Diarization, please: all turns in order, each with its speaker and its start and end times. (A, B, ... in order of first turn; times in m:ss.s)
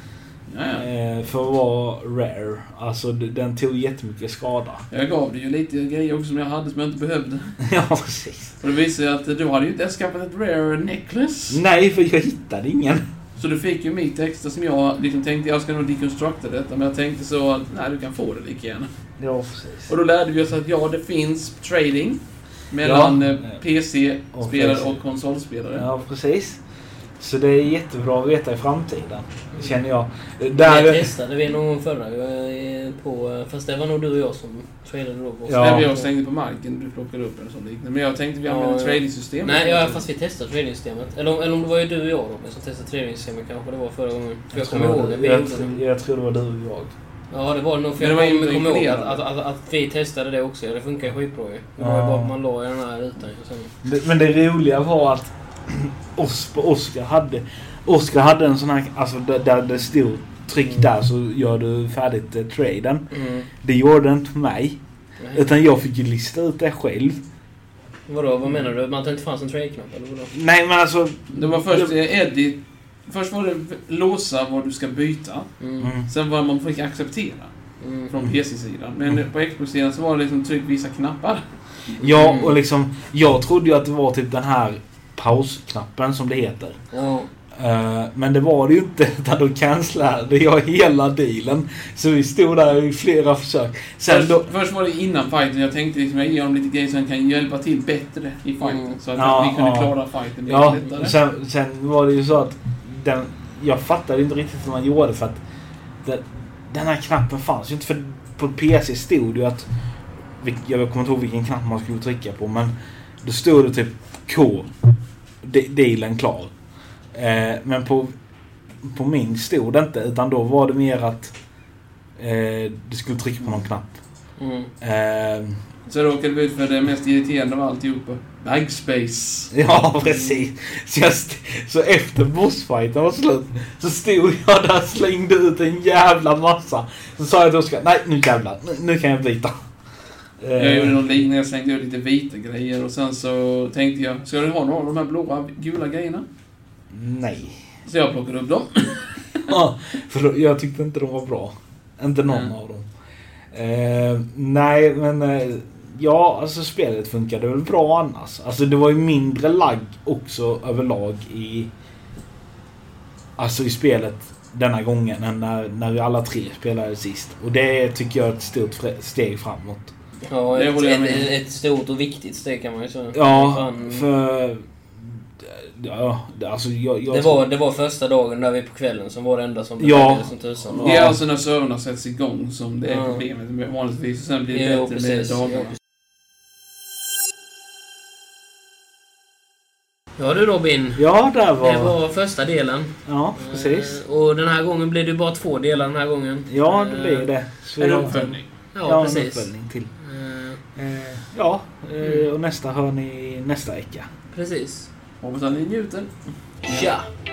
0:00.5-0:00.8 A
0:00.8-0:04.8 B
0:04.9-0:07.5 A
0:07.6-0:08.5 B
0:08.6-0:11.6 A
0:11.5-0:13.0 B
0:13.4-0:18.9 A
0:19.2-0:19.9 B
0:19.9-0:22.2 A
0:22.7-0:25.9 A
0:22.8-0:23.4 B
0:24.3-0:25.0 B
0:25.7-0:26.6 B
0:27.2-0:31.1 B
0:30.5-0:36.1 C
0:35.4-0:35.9 B
0:35.6-0:40.0 A
0:38.4-0:45.8 C
0:44.5-0:46.9 B
0:47.3-0:53.7 C
0:48.0-0:49.2 A
0:51.8-0:52.3 B
0:53.8-1:03.0 B
1:03.1-1:03.5 C
1:03.6-1:04.8 B
1:05.2-1:05.5 C
1:05.3-1:07.2 B
1:08.1-1:10.3 C
1:10.3-1:11.9 B
1:11.3-1:15.5 A
1:15.6-1:15.9 C
1:15.8-1:16.1 B
1:16.1-1:17.5 A
1:17.8-1:18.1 C
1:18.1-1:21.4 A
1:22.0-1:26.8 B
1:22.0-1:22.6 C
1:26.9-1:27.3 C
1:27.6-1:34.5 B
1:34.1-1:41.2 A
1:38.6-1:39.0 C
1:39.1-1:45.4 B
1:46.0-1:49.7 B
1:50.4-1:54.7 B
1:55.4-1:56.5 B
1:57.1-1:58.1 B
1:58.8-2:01.3 B
2:02.2-2:04.0 B
2:04.4-2:04.7 C
2:04.8-2:05.6 B
2:05.9-2:09.5 A
2:09.5-2:19.5 B
2:10.0-2:10.5 C
2:20.4-2:21.0 B
2:20.6-2:26.2 A
2:26.9-2:27.6 B
2:27.8-2:29.5 A
2:29.5-2:32.9 B
2:32.2-2:32.5 A
2:33.5-2:41.7 B
2:43.4-2:49.9 B
2:50.3-2:54.1 C
2:50.5-2:51.3 A
2:53.1-2:57.4 B
2:57.1-3:01.1 C
2:59.8-3:00.2 B
3:00.7-3:05.8 A
3:00.8-3:01.2 B
3:02.8-3:03.2 C
3:04.5-3:05.7 C
3:10.2-3:11.0 C
3:11.0-3:11.9 B
3:11.6-3:17.3 C
3:13.0-3:14.0 B
3:16.5-3:19.9 B
3:17.8-3:18.5 A
3:18.7-3:20.6 C
3:20.8-3:24.1 B
3:24.3-3:24.9 C
3:25.2-3:26.1 A
3:26.6-3:26.9 A
3:26.7-3:27.0 C